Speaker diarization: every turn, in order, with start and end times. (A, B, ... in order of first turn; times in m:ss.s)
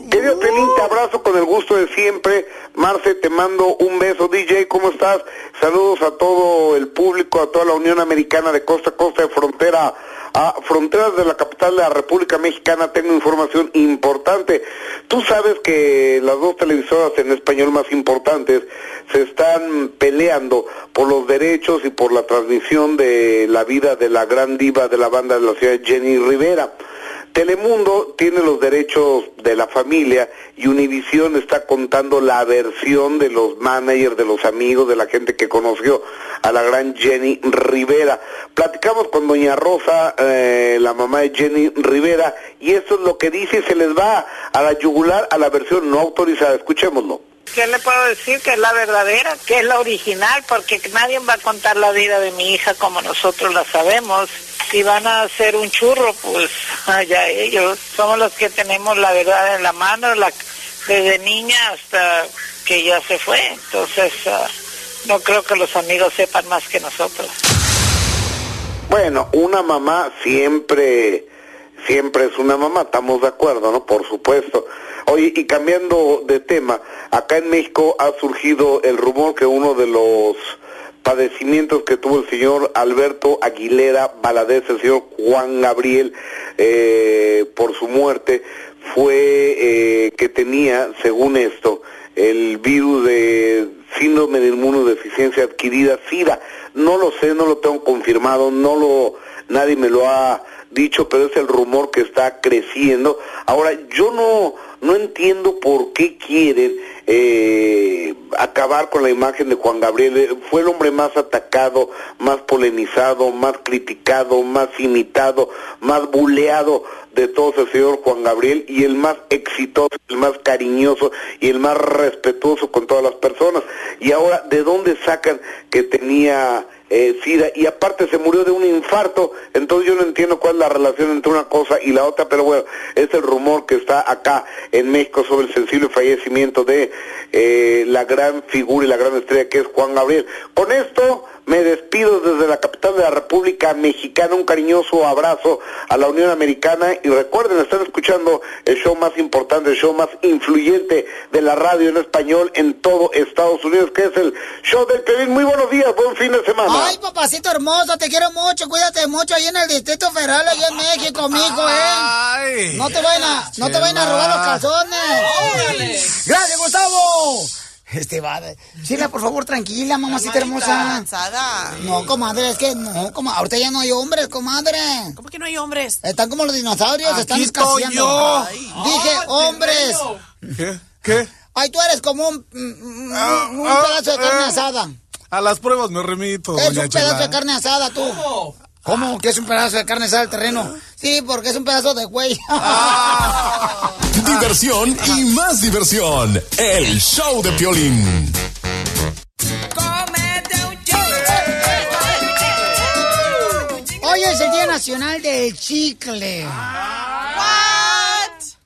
0:00.1-0:26.7 A
0:00.1-0:00.8 B
0:27.3-0:47.2 A
0:47.5-1:04.5 C
1:05.1-1:07.3 C
1:08.9-1:11.3 A
1:11.8-2:36.9 A
2:36.7-2:42.1 D
2:41.4-2:43.0 B
2:42.7-2:51.1 D
2:43.5-2:44.6 B
2:45.2-2:46.0 E
2:50.1-2:52.1 E
2:51.7-2:55.2 D
2:55.2-2:56.0 E
2:56.0-3:00.1 D
2:57.0-2:58.5 B
2:58.2-3:00.2 E
3:00.6-3:01.3 B
3:01.5-3:04.9 D
3:03.1-3:04.6 B
3:05.3-3:07.4 B
3:06.6-3:08.3 D
3:08.8-3:13.6 D
3:12.6-3:13.7 B
3:14.2-3:18.4 F
3:24.0-3:26.6 D
3:26.8-3:27.4 B
3:27.2-3:28.4 E